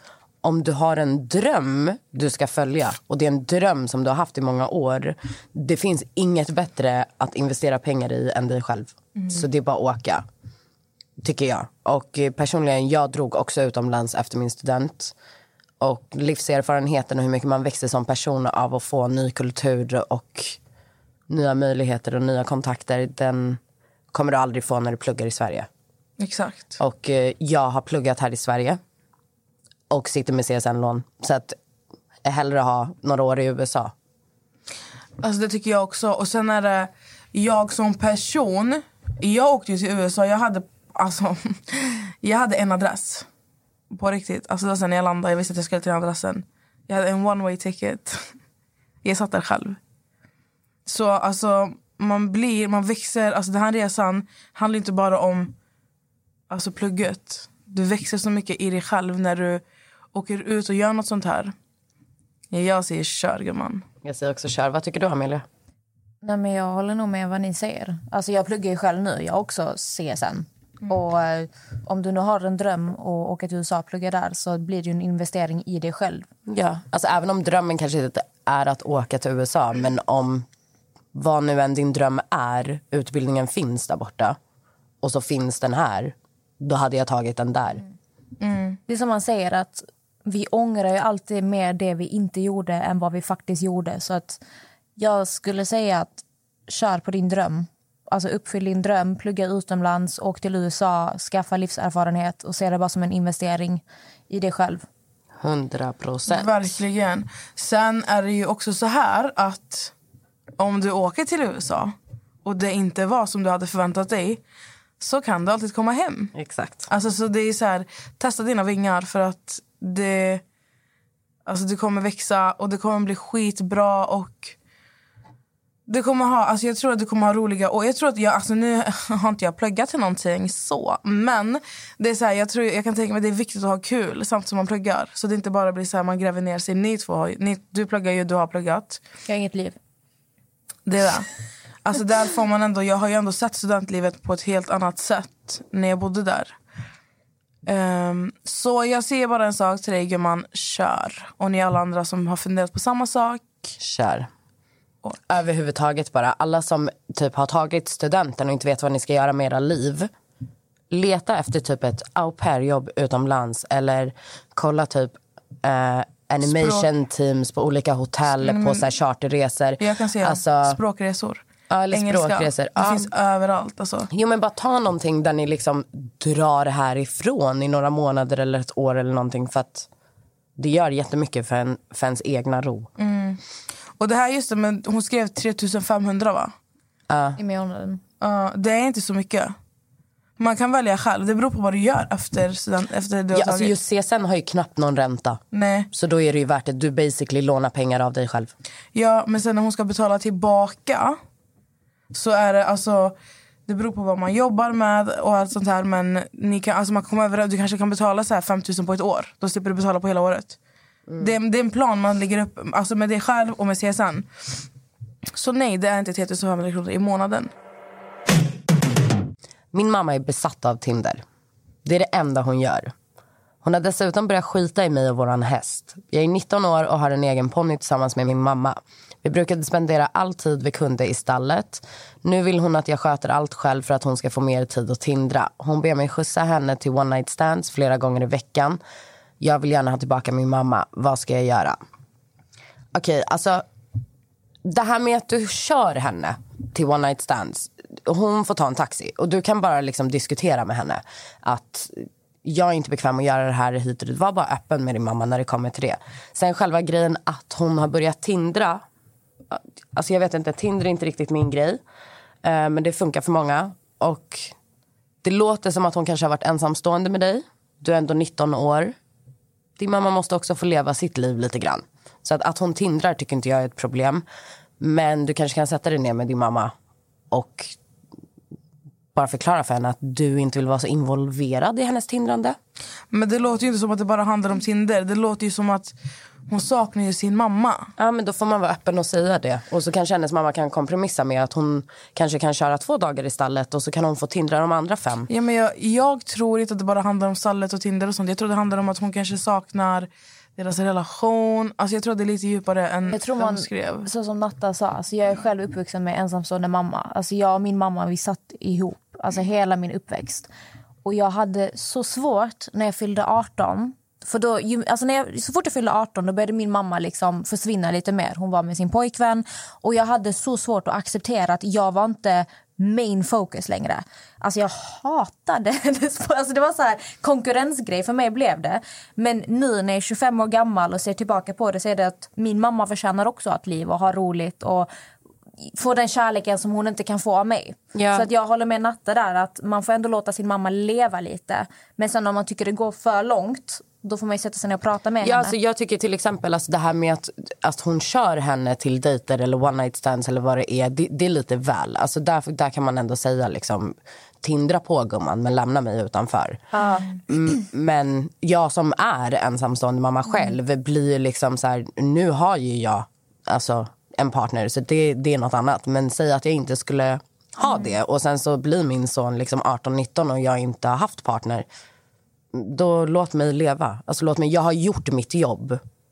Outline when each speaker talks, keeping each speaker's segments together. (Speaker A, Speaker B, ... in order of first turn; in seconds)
Speaker A: 0.4-10.2, 11.2-15.1, 15.8-20.6, 21.3-23.6, 24.1-25.7, 26.8-28.8, 29.9-31.6, 32.2-33.9, 64.0-65.4, 76.5-80.5, 81.1-84.4, 85.0-87.8, 105.4-106.5, 116.3-116.9, 153.8-154.3, 155.3-160.1, 160.9-170.8, 171.7-173.1, 174.1-179.9, 180.6-182.9, 187.1-187.4, 193.3-195.4, 195.9-198.5, 219.7-221.2, 221.8-222.9, 223.6-238.8, 239.4-241.8, 242.9-243.6, 244.6-258.8, 259.5-261.8, 262.4-264.5, 265.2-268.9, 269.8-274.2, 274.8-276.7, 277.3-277.8, 279.1-282.6, 288.0-295.3, 337.9-338.3, 345.2-371.6, 372.5-375.8
Speaker B: 26.2-26.8, 35.2-43.3, 43.9-48.3, 49.0-49.8, 50.9-55.5, 56.5-59.6, 60.1-61.5, 62.5-63.9, 88.4-88.8, 106.3-109.9, 110.6-111.9, 112.4-114.4, 115.0-116.3, 116.9-120.4, 121.5-124.5, 125.9-139.0, 140.9-141.3, 141.8-146.6, 147.7-153.8, 166.4-166.9, 168.4-168.9, 169.8-174.1, 183.0-183.4, 184.0-186.5, 188.2-189.5, 190.4-193.7, 195.5-195.9, 198.9-201.2, 202.1-203.1, 203.7-210.6, 211.2-214.3, 215.3-217.5, 283.1-285.9, 286.5-287.9, 295.3-304.1
Speaker C: 66.2-76.3, 88.9-94.4, 95.0-104.9, 139.3-139.8, 187.4-188.0, 303.1-310.5, 311.0-334.9, 335.6-345.6, 356.7-357.1